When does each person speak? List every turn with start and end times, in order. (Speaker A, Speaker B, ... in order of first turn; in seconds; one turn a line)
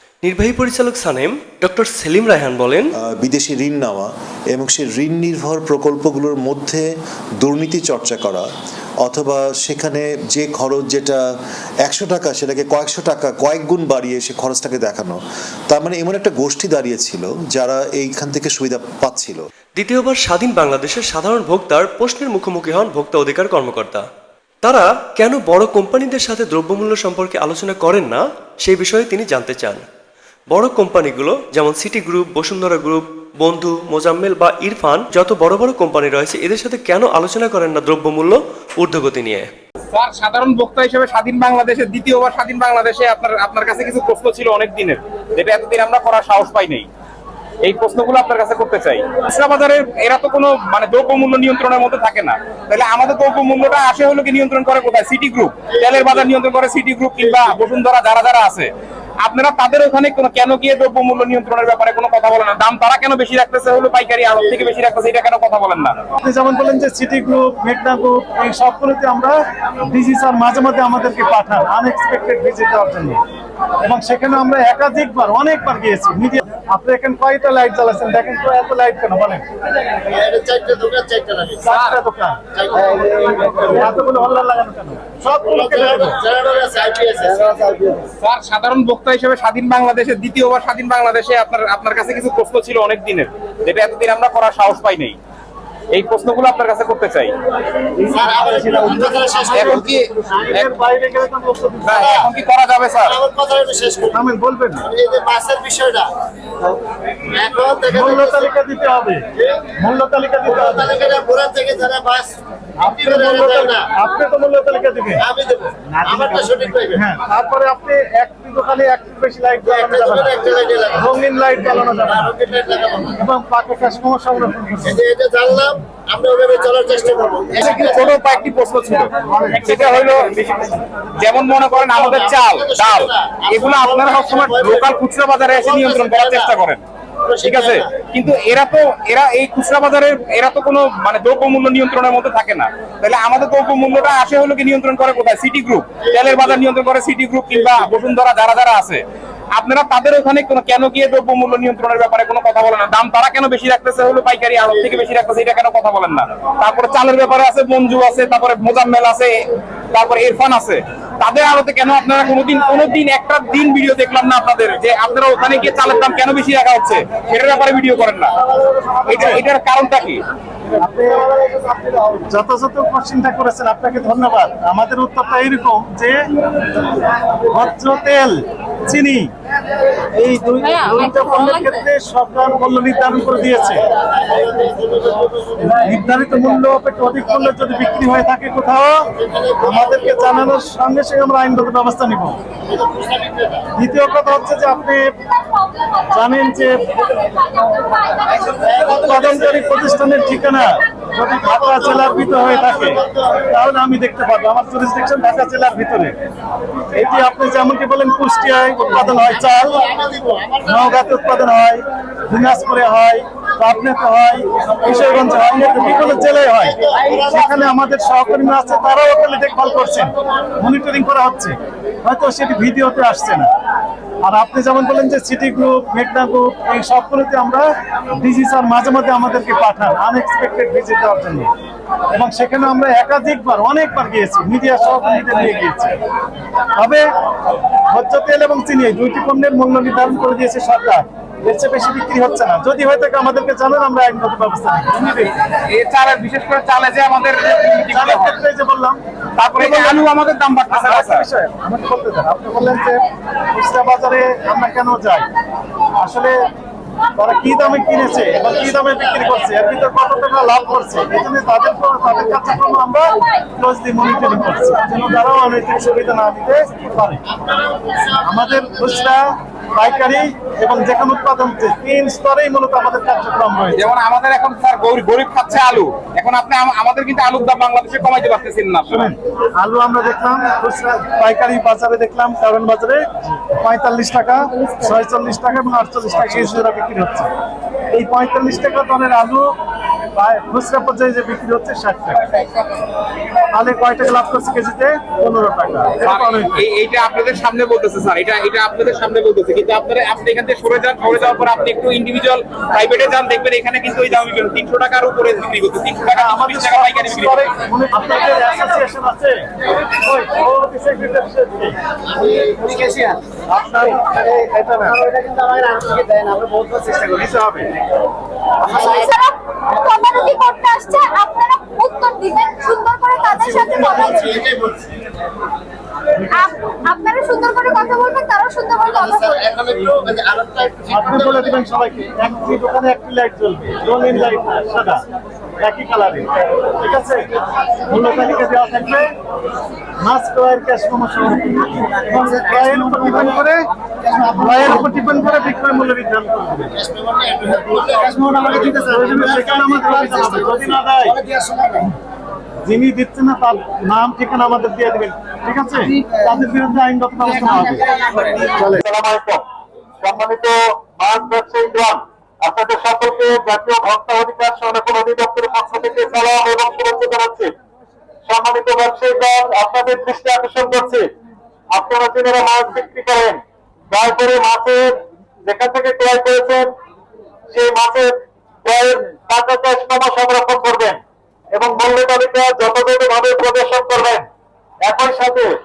Speaker A: 0.2-2.9
Speaker B: 3.0-8.5
Speaker B: 9.0-11.2
Speaker B: 11.8-19.4
Speaker A: 19.8-24.0
Speaker A: 24.6-29.8
Speaker A: 30.5-39.5
Speaker C: 39.9-46.9
Speaker C: 47.6-58.7
Speaker C: 59.2-66.0
Speaker D: 66.2-69.4
Speaker D: 69.9-73.2
Speaker D: 73.8-79.4
Speaker E: 80.1-81.6
Speaker D: 81.7-82.4
Speaker C: 81.7-82.0
Speaker E: 82.6-83.8
Speaker D: 83.2-86.2
Speaker E: 85.5-87.7
Speaker C: 88.2-95.2
Speaker C: 95.9-97.3
Speaker D: 98.1-102.2
Speaker E: 98.1-99.8
Speaker C: 99.5-100.7
Speaker C: 101.8-103.2
Speaker E: 101.9-102.2
Speaker E: 103.1-104.2
Speaker D: 104.1-104.8
Speaker E: 104.8-106.1
Speaker E: 107.3-108.5
Speaker D: 107.9-109.2
Speaker D: 109.8-110.9
Speaker E: 110.4-112.3
Speaker D: 112.8-115.2
Speaker E: 112.9-113.9
Speaker E: 115.2-117.0
Speaker D: 116.9-122.3
Speaker E: 119.6-121.1
Speaker E: 122.1-123.1
Speaker D: 123.2-125.0
Speaker E: 124.8-128.2
Speaker C: 127.6-136.8
Speaker D: 129.2-129.6
Speaker E: 131.7-135.0
Speaker E: 135.6-136.5
Speaker E: 137.3-137.8
Speaker C: 137.4-149.0
Speaker E: 146.1-146.6
Speaker C: 149.5-159.4
Speaker C: 159.9-168.3
Speaker C: 169.1-170.2
Speaker D: 169.1-169.4
Speaker D: 170.8-171.2
Speaker D: 172.3-176.2
Speaker D: 177.5-179.3
Speaker D: 180.1-183.8
Speaker F: 180.7-181.6
Speaker E: 184.4-185.7
Speaker D: 185.7-189.0
Speaker E: 189.2-190.1
Speaker D: 189.6-192.4
Speaker E: 192.7-193.6
Speaker D: 193.8-195.1
Speaker D: 196.1-196.8
Speaker D: 198.8-206.1
Speaker E: 202.1-203.0
Speaker D: 206.9-209.8
Speaker D: 210.6-223.5
Speaker E: 215.1-217.7
Speaker D: 224.2-227.7
Speaker D: 228.2-231.5
Speaker D: 232.1-236.0
Speaker D: 236.8-237.0
Speaker D: 237.9-245.3
Speaker C: 245.5-248.4
Speaker D: 247.9-249.0
Speaker C: 249.4-251.2
Speaker D: 249.6-250.1
Speaker D: 250.7-253.0
Speaker D: 253.5-255.3
Speaker D: 256.0-256.4
Speaker D: 257.2-267.2
Speaker D: 268.2-269.2
Speaker D: 269.7-273.8
Speaker C: 273.7-279.1
Speaker D: 278.9-287.3
Speaker D: 287.9-289.5
Speaker D: 290.1-292.3
Speaker D: 293.5-296.5
Speaker C: 296.0-307.5
Speaker D: 306.1-309.4
Speaker D: 310.0-311.8
Speaker D: 312.6-314.9
Speaker D: 316.6-317.7
Speaker F: 318.6-324.3
Speaker E: 323.8-324.8
Speaker F: 326.3-329.5
Speaker E: 329.4-331.5
Speaker D: 330.9-335.0
Speaker D: 335.6-337.3
Speaker D: 337.9-339.1
Speaker D: 340.0-343.6
Speaker D: 344.3-346.7
Speaker E: 346.9-349.2
Speaker D: 348.4-351.1
Speaker D: 352.6-357.9
Speaker D: 358.5-358.8
Speaker G: 358.7-359.4
Speaker G: 360.0-367.5
Speaker G: 368.3-371.0
Speaker G: 371.7-373.4
Speaker G: 373.9-374.9
Speaker G: 375.4-376.7
Speaker G: 377.5-381.0
Speaker G: 381.5-384.2
Speaker G: 384.8-385.5